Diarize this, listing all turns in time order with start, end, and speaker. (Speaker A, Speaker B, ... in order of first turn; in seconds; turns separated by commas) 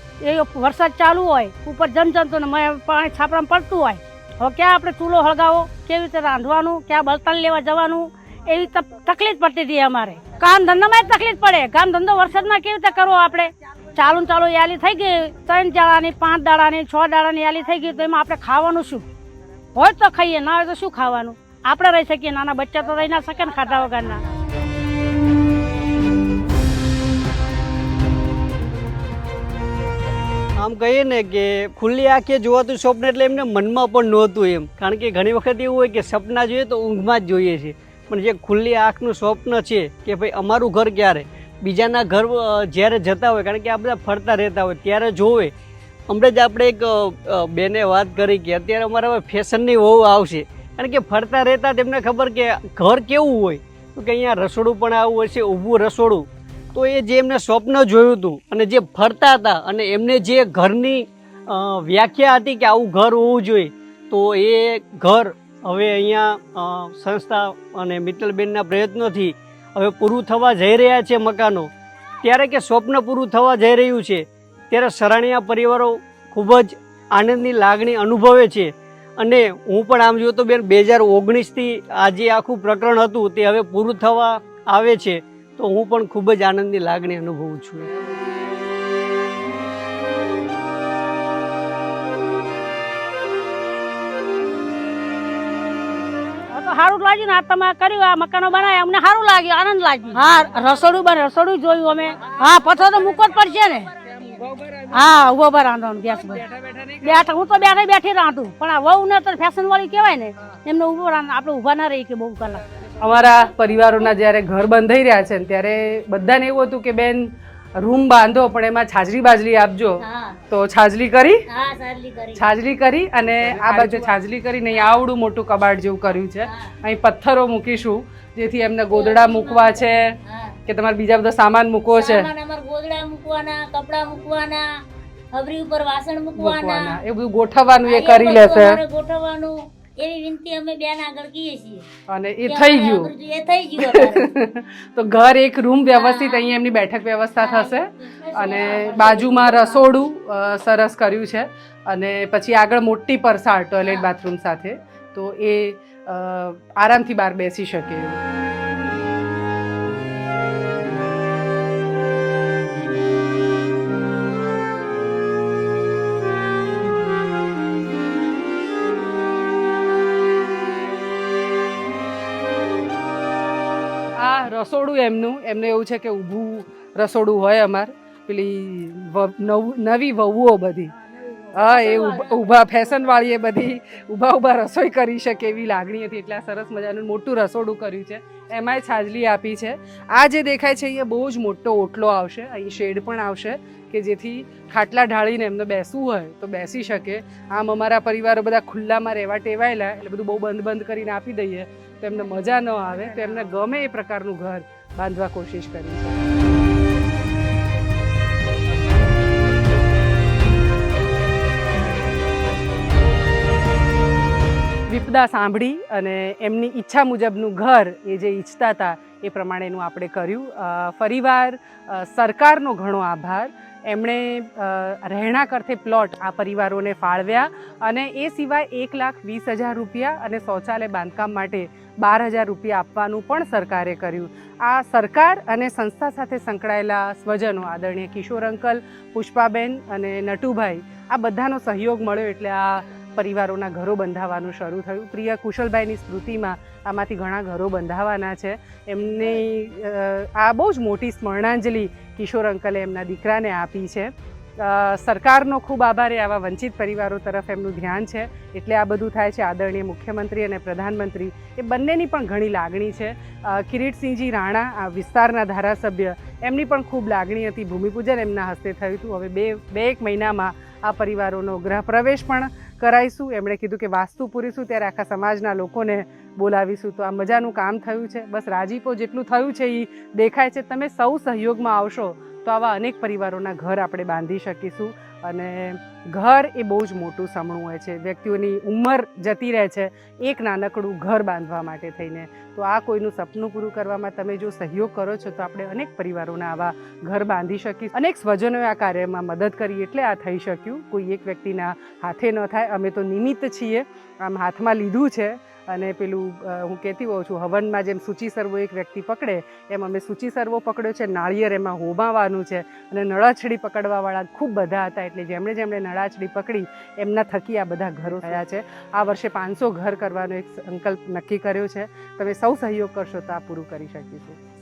Speaker A: 0.2-19.1, Speaker A: 19.8-24.2, Speaker B: 30.6-45.5, Speaker B: 46.1-71.7, Speaker B: 72.2-87.9, Speaker A: 96.5-103.9, Speaker C: 104.3-104.8, Speaker A: 104.9-106.5, Speaker C: 106.5-107.2, Speaker A: 107.0-112.6, Speaker C: 113.0-117.3, Speaker C: 117.8-121.4, Speaker D: 120.0-120.4, Speaker D: 121.5-122.5, Speaker C: 122.4-130.1, Speaker D: 124.7-125.0, Speaker D: 126.4-126.7, Speaker D: 128.9-130.6, Speaker C: 130.7-132.3, Speaker D: 131.9-134.7, Speaker D: 135.3-137.0, Speaker C: 136.4-138.8, Speaker D: 137.8-141.9, Speaker C: 142.1-143.1, Speaker D: 142.5-144.3, Speaker C: 143.8-158.2, Speaker D: 145.9-146.6, Speaker D: 147.4-149.9, Speaker D: 153.8-154.1, Speaker C: 174.2-180.9, Speaker D: 181.3-182.4, Speaker C: 181.5-206.2, Speaker C: 214.9-324.4